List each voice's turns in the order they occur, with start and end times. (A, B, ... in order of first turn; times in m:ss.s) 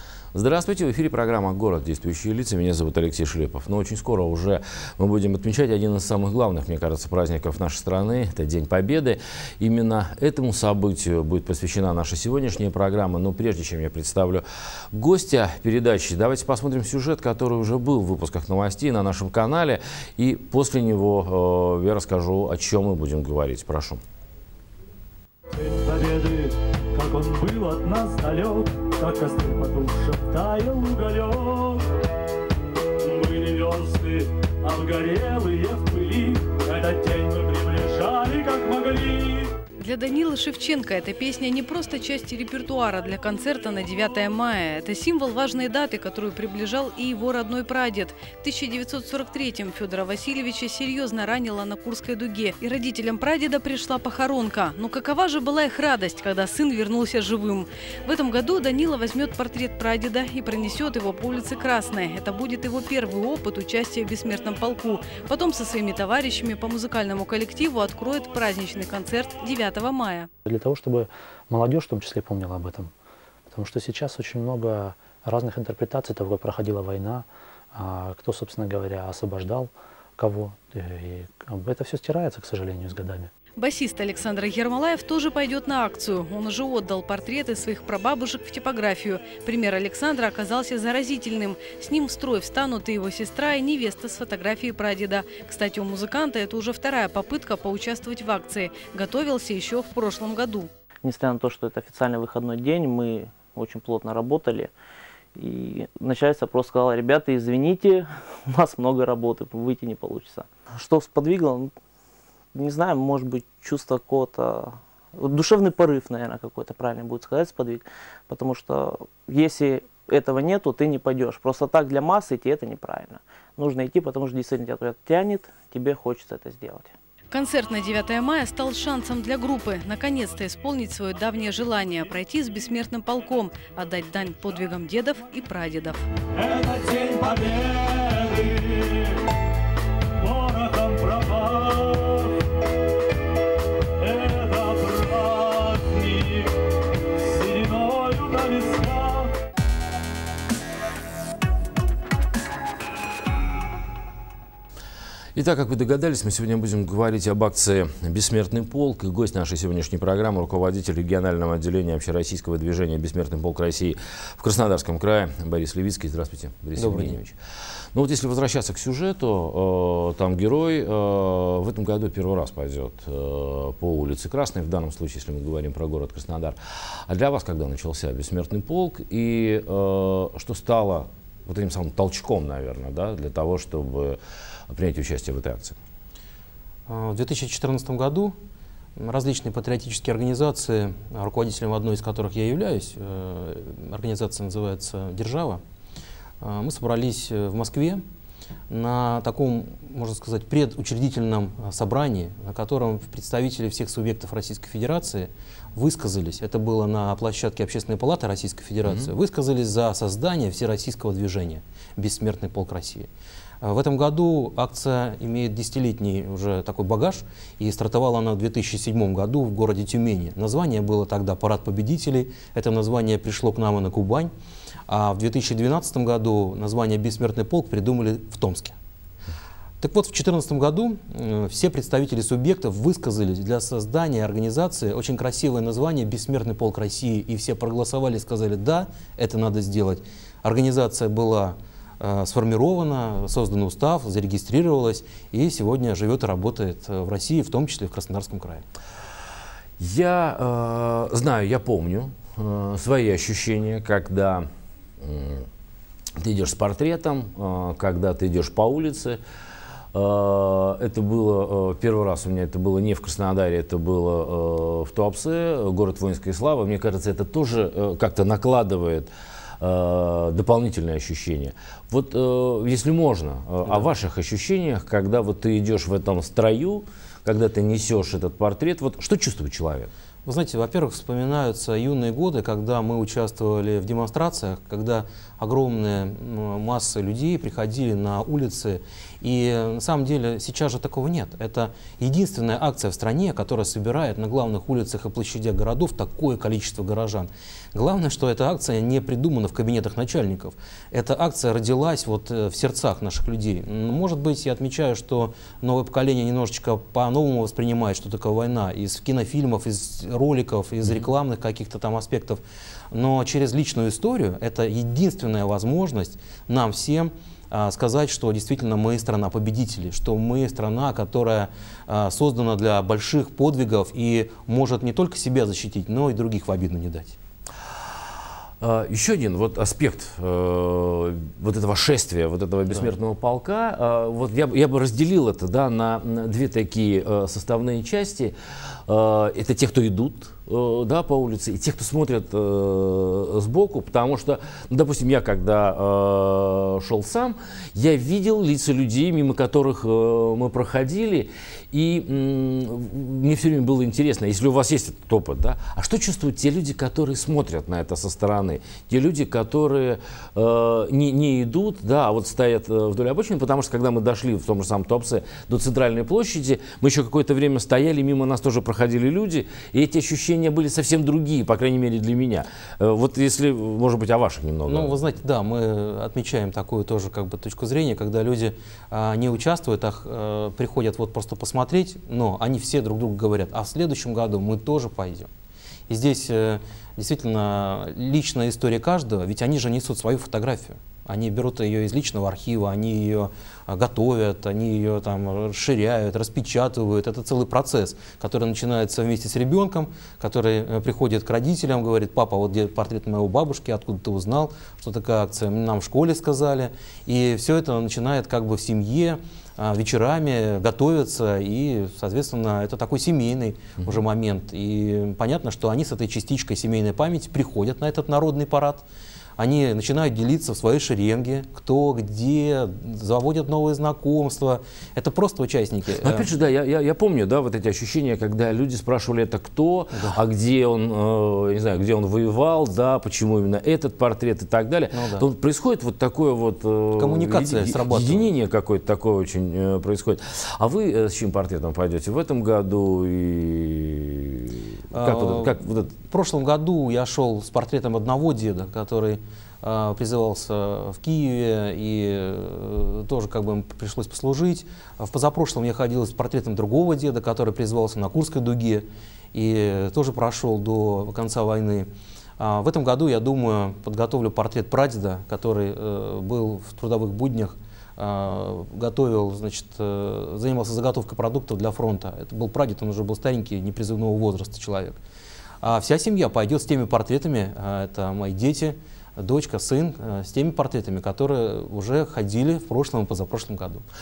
0:00.3-0:24.0 A
0:25.5-0:31.8 B
0:33.0-0:39.5 B
0:39.8-1:10.3 C
1:10.4-1:12.9 D
1:13.5-1:23.3 D
1:23.6-1:40.7 C
1:41.0-1:44.7 E
1:45.4-1:51.7 E
1:52.5-2:07.0 E
2:07.3-2:16.0 C
2:16.3-2:19.3 B
2:20.2-2:22.4 B
2:24.0-2:26.6 B
2:27.2-2:29.3 B
2:35.4-2:47.3 A
2:46.8-2:47.3 F
2:47.9-3:05.8 A
3:06.9-3:08.4 F
3:09.0-3:15.6 F
3:16.4-3:18.0 F
3:18.7-3:33.1 F
3:28.8-3:29.1 A
3:33.6-3:44.3 F
3:44.9-3:48.8 F
3:49.8-4:08.6 F
4:09.8-4:14.5 A
4:15.0-4:15.5 A
4:16.2-4:19.2 A
4:19.9-4:39.9 A
4:40.3-5:27.2 F
5:28.6-5:38.3 A
5:38.9-6:15.0 A
6:14.7-6:25.3 F
6:25.9-6:58.8 F
6:59.4-7:06.3 F
7:06.0-7:26.0 A
7:09.9-7:10.2 F
7:14.9-7:15.2 F
7:17.0-7:18.3 F
7:24.9-7:55.0 F
7:55.6-8:03.8 F